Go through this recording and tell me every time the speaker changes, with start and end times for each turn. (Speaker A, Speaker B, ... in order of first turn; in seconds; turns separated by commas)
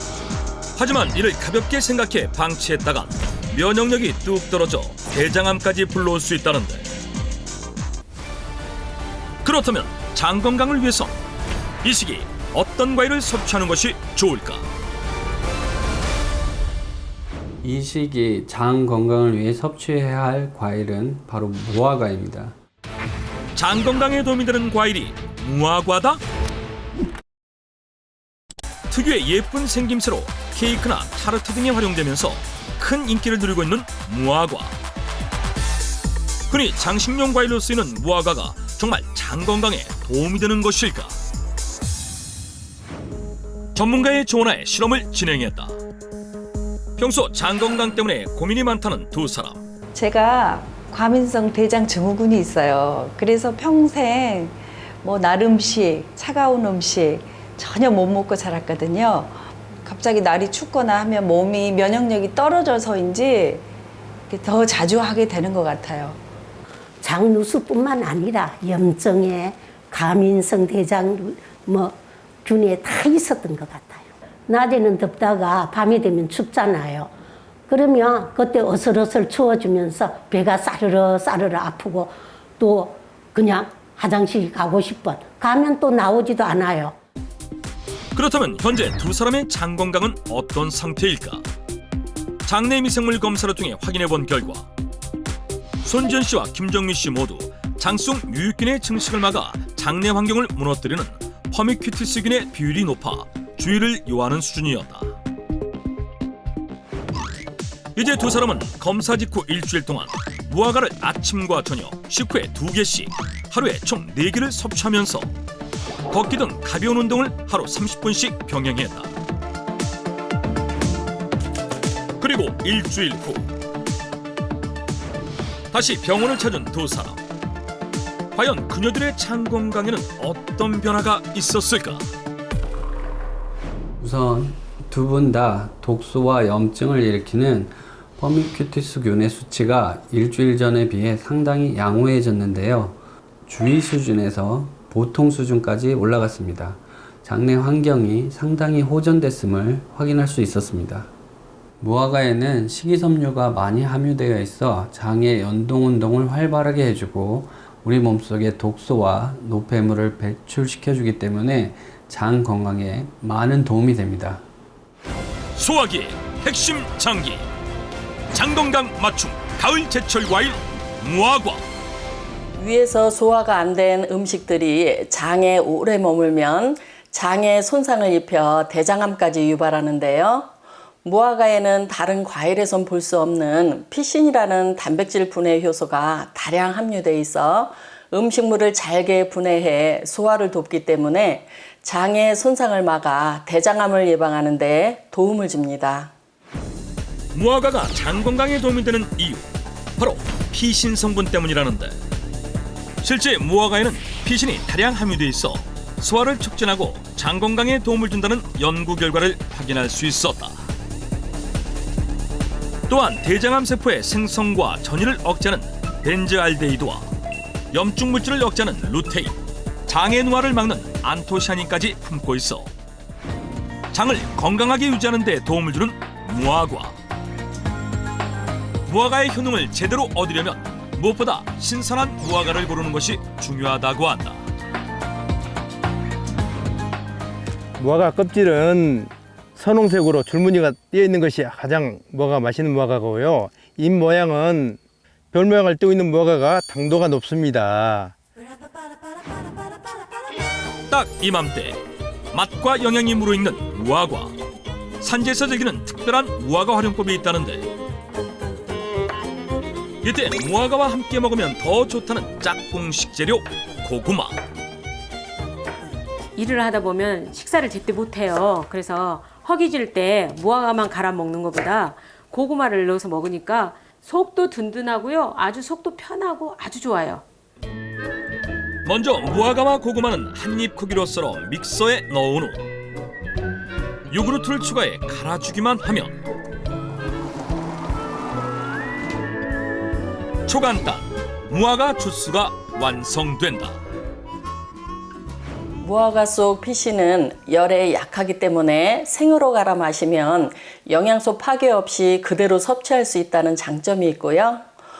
Speaker A: 0.8-6.9, Speaker A: 9.4-11.1, Speaker A: 11.8-14.7, Speaker B: 17.6-22.6, Speaker A: 23.5-26.2, Speaker A: 28.9-34.8, Speaker A: 36.5-41.2, Speaker A: 43.7-45.7, Speaker A: 47.0-49.6, Speaker C: 49.9-63.6, Speaker C: 64.3-66.2, Speaker D: 67.0-77.1, Speaker D: 77.7-86.9, Speaker A: 88.1-91.4, Speaker A: 92.4-94.7, Speaker A: 95.8-105.1, Speaker A: 108.0-115.3, Speaker A: 116.1-119.1, Speaker A: 122.2-123.5, Speaker A: 125.7-127.2, Speaker A: 128.3-132.1, Speaker B: 134.0-151.1, Speaker B: 151.8-164.4, Speaker A: 165.6-167.4, Speaker A: 168.3-171.6, Speaker E: 172.6-180.5, Speaker E: 181.1-196.1, Speaker A: 197.3-202.0, Speaker A: 203.0-210.6, Speaker A: 212.9-217.1, Speaker A: 217.7-219.3, Speaker A: 219.9-222.7, Speaker A: 223.9-227.0, Speaker A: 228.9-234.4, Speaker F: 237.8-244.8, Speaker F: 245.3-248.1, Speaker A: 250.9-254.3, Speaker A: 255.0-257.7, Speaker A: 260.0-264.4, Speaker G: 266.4-277.2, Speaker A: 278.9-282.7, Speaker A: 284.1-286.2, Speaker A: 290.5-293.8, Speaker E: 295.8-304.7